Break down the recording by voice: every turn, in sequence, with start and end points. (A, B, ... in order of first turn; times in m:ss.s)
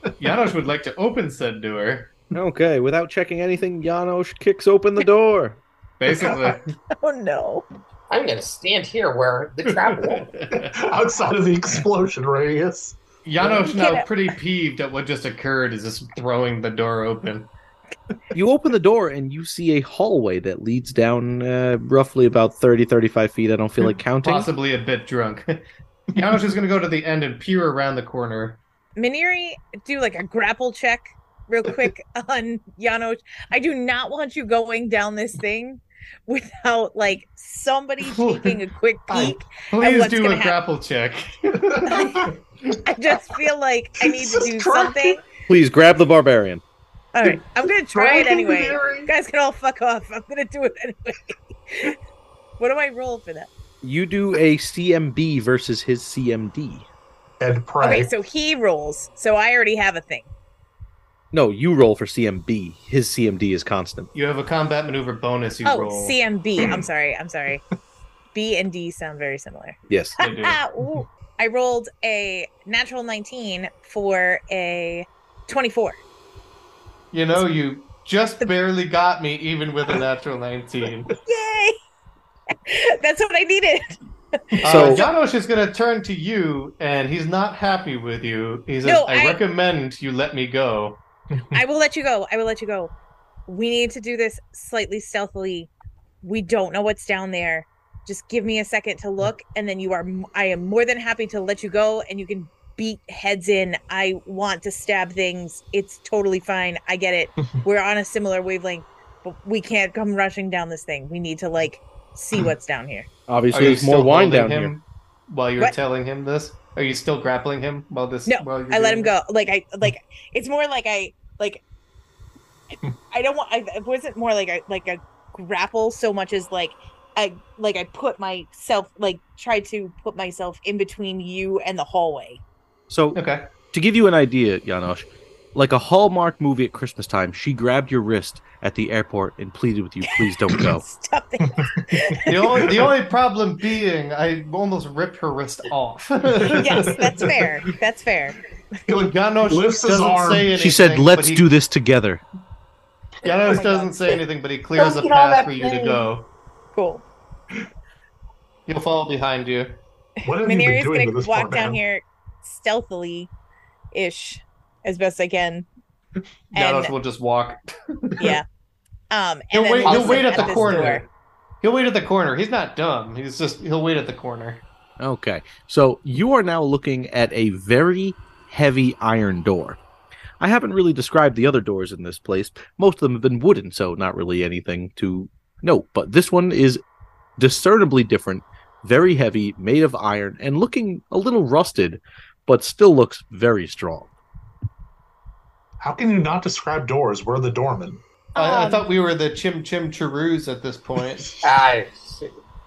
0:00.2-0:02.1 A
0:02.3-0:05.6 B
0:06.0-0:06.7 A
0:06.9-0:07.7 C
0:08.1-0:10.3 D
0:09.8-0:10.7 A
0:10.5-0:13.5 E
0:13.2-0:17.5 A
0:13.4-0:14.1 C
0:18.3-0:24.5 B
0:24.2-0:28.6 A
0:29.0-0:40.6 C
0:38.0-0:38.6 A
0:39.7-0:42.3 A
0:41.7-0:42.3 E
0:41.9-0:42.3 C
0:42.8-0:45.2 C
0:44.0-0:45.2 E
0:45.5-0:46.6 B
0:47.1-0:52.0 C
0:47.9-0:49.1 E
0:52.6-0:53.5 C
0:53.8-0:56.9 B
0:57.4-0:58.1 E
0:57.8-1:00.3 C
1:01.3-1:04.1 B
1:04.1-1:06.2 A
1:05.6-1:07.6 C
1:08.3-1:16.0 C
1:09.9-1:10.2 B
1:10.2-1:10.6 A
1:17.1-1:21.2 A
1:21.3-1:21.8 C
1:22.7-1:24.0 C
1:24.5-1:25.1 C
1:24.6-1:31.0 A
1:24.6-1:25.0 B
1:28.8-1:29.4 C
1:31.3-1:31.6 E
1:31.5-1:32.9 C
1:33.5-1:35.7 C
1:36.2-1:53.1 C
1:53.3-1:54.7 B
1:53.5-1:59.1 A
1:58.3-2:01.6 C
2:03.1-2:12.4 C
2:12.9-2:13.2 B
2:13.1-2:13.4 A
2:13.7-2:20.8 B
2:20.1-2:22.6 C
2:21.5-2:22.9 E
2:22.3-2:27.1 A
2:26.4-2:27.3 E
2:26.6-2:28.4 C
2:28.9-2:30.5 E
2:28.9-2:31.5 A
2:30.5-2:32.2 B
2:33.2-2:36.3 A
2:33.5-2:34.0 C
2:34.8-2:36.1 D
2:36.7-2:37.0 C
2:38.7-2:39.8 A
2:40.2-2:43.3 C
2:40.2-2:41.8 E
2:43.9-2:45.7 C
2:46.5-2:46.9 C
2:46.5-2:48.3 A
2:48.2-2:48.4 C
2:49.1-2:51.0 C
2:49.5-2:51.1 A
2:49.8-2:51.0 E
2:51.6-2:54.6 A
2:55.0-2:59.8 B
3:00.4-3:06.8 B
3:07.4-3:14.1 B
3:15.8-3:18.0 E
3:18.4-3:18.9 C
3:18.4-3:21.4 A
3:21.4-3:22.4 D